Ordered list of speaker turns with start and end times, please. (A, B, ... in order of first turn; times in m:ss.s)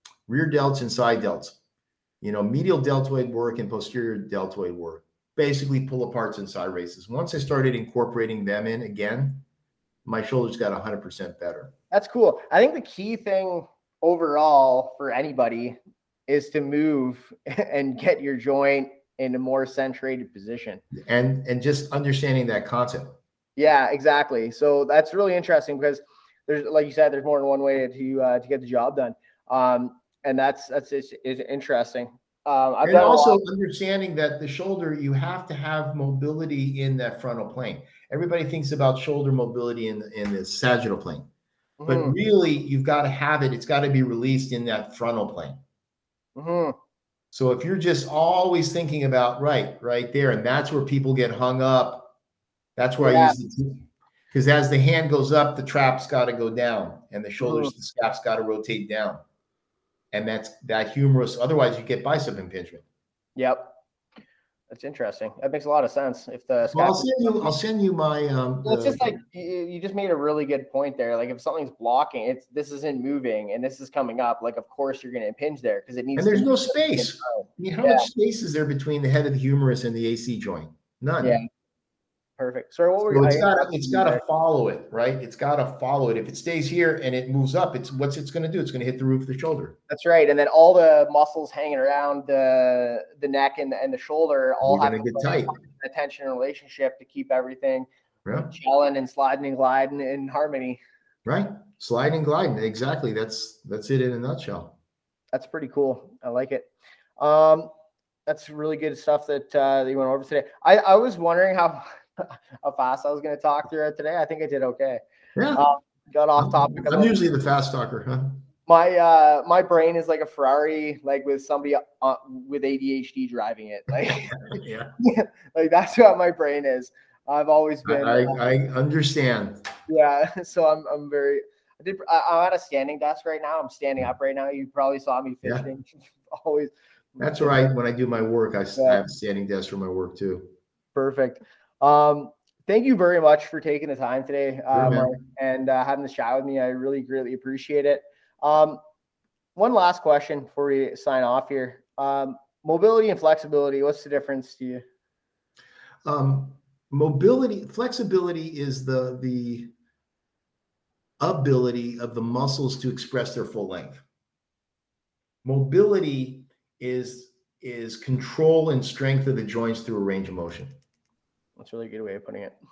0:00.3-0:01.6 A
0:02.2-0:09.4 A
0:10.0-0:11.7 A
0:11.9-0:20.8 B
0:20.9-0:23.2 A
0:23.6-0:33.4 B
0:32.8-0:41.3 A
0:41.8-0:42.2 B
0:41.8-0:45.6 A
0:46.4-0:46.8 B
0:47.3-0:52.1 A
0:52.8-0:53.8 A
0:53.0-0:53.4 B
0:54.3-0:59.2 A
0:57.4-0:57.7 B
1:00.1-1:02.8 A
1:03.4-1:03.7 B
1:04.7-1:07.5 B
1:06.7-1:09.0 A
1:08.6-1:18.1 B
1:16.2-1:21.4 A
1:22.4-1:24.2 B
1:23.1-1:29.8 A
1:29.9-1:37.9 B
1:34.6-1:35.6 A
1:38.4-1:40.8 B
1:41.2-1:44.7 A
1:45.3-1:47.7 B
1:48.2-1:55.0 B
1:55.4-1:55.6 A
1:55.5-1:57.1 B
1:56.4-1:58.4 A
1:58.6-2:04.4 B
2:04.0-2:04.9 A
2:05.0-2:08.4 B
2:07.8-2:09.7 A
2:09.9-2:17.7 B
2:17.2-2:20.5 A
2:18.8-2:19.0 B
2:20.9-2:28.8 B
2:24.7-2:25.2 A
2:29.5-2:34.8 B
2:36.0-2:39.7 A
2:41.2-2:44.0 A
2:45.4-2:50.7 A
2:51.6-2:52.6 B